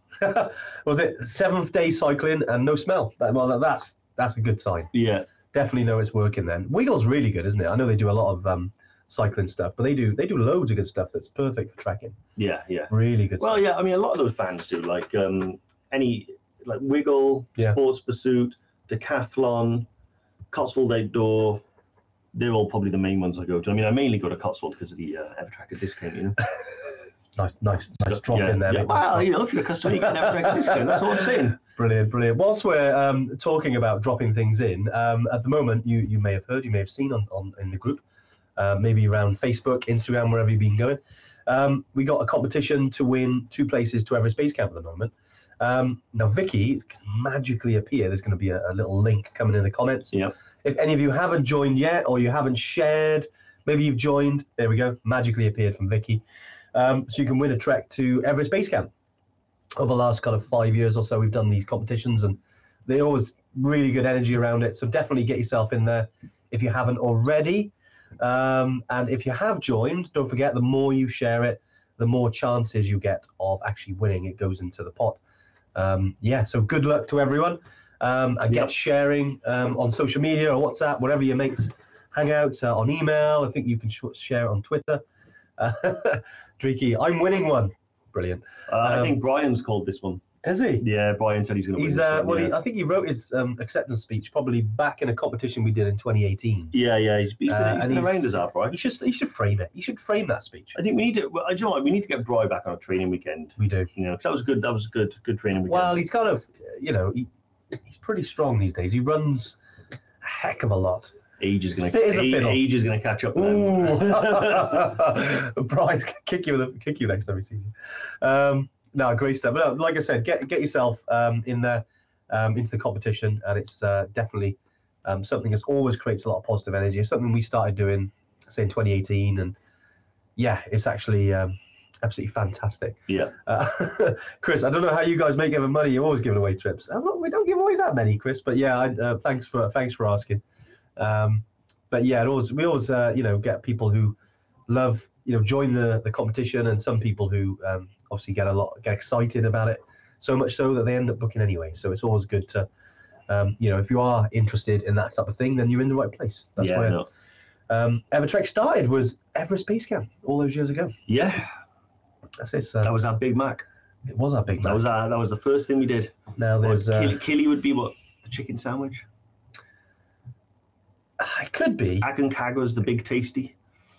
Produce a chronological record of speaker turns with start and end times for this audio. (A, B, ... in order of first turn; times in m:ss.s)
0:00.2-0:04.9 A
0:04.9-0:05.3 B
0:05.5-0:12.2 A
0:12.4-0:19.9 B
0:12.9-0:13.6 A
0:20.5-0:21.6 B
0:22.3-0:26.4 B
0:27.4-0:29.3 A
0:28.1-0:31.6 B
0:29.8-0:38.0 A
0:38.6-0:56.2 A
0:56.7-0:58.9 A
0:59.8-1:15.2 A
1:15.7-1:25.0 A
1:25.6-1:29.2 A
1:28.7-1:30.2 B
1:30.4-1:30.8 A
1:30.8-1:32.6 B
1:31.8-1:36.7 A
1:36.7-1:38.8 B
1:37.5-1:40.8 A
1:40.7-1:46.0 B
1:43.6-1:43.9 A
1:45.7-1:49.6 A
1:50.2-1:51.1 A
1:51.4-1:54.9 B
1:51.7-1:52.6 A
1:53.3-2:09.6 A
2:10.4-2:20.4 A
2:13.1-2:13.3 B
2:21.0-2:24.1 A
2:24.7-2:32.7 A
2:33.3-2:37.0 A
2:36.6-2:37.1 B
2:37.7-2:40.9 A
2:41.1-2:41.5 B
2:42.4-2:42.9 A
2:42.8-2:43.6 B
2:44.1-2:44.8 A
2:44.6-2:49.0 B
2:46.4-2:47.2 A
2:51.2-2:52.1 A
2:52.0-2:53.6 B